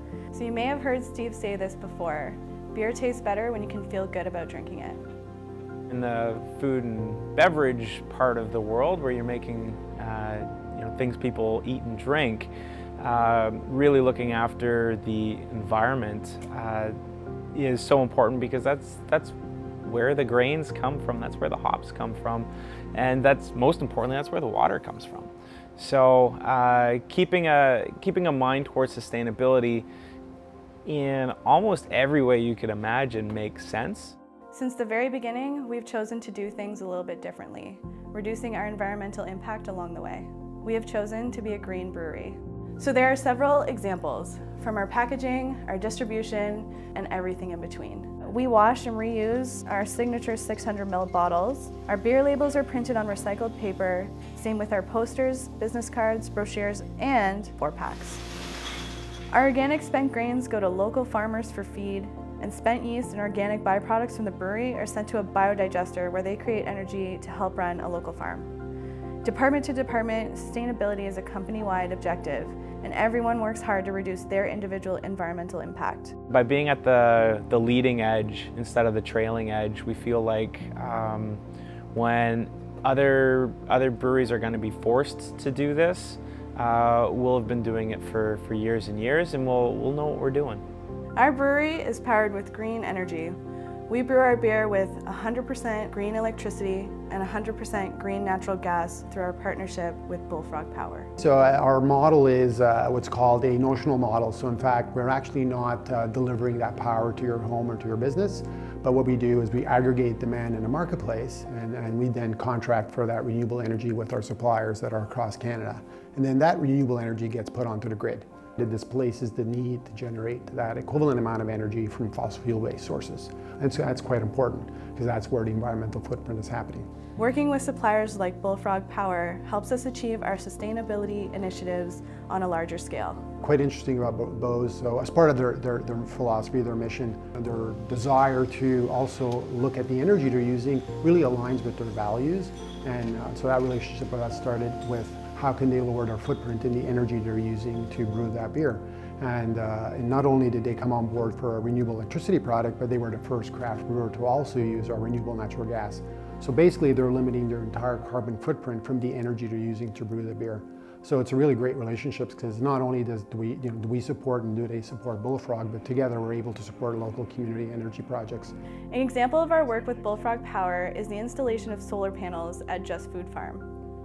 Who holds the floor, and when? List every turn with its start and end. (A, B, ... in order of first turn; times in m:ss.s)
0:00.3-0:05.0 A
0:05.9-0:16.9 B
0:17.5-0:29.9 B
0:30.8-0:34.1 B
0:34.5-0:58.2 A
0:59.3-1:08.5 A
1:09.2-1:16.1 A
1:16.3-1:21.4 B
1:21.9-1:30.6 B
1:31.2-1:33.4 A
1:33.9-1:41.1 A
1:41.2-2:06.9 C
2:07.2-2:13.2 A
2:13.4-2:48.5 C
2:48.9-2:53.6 A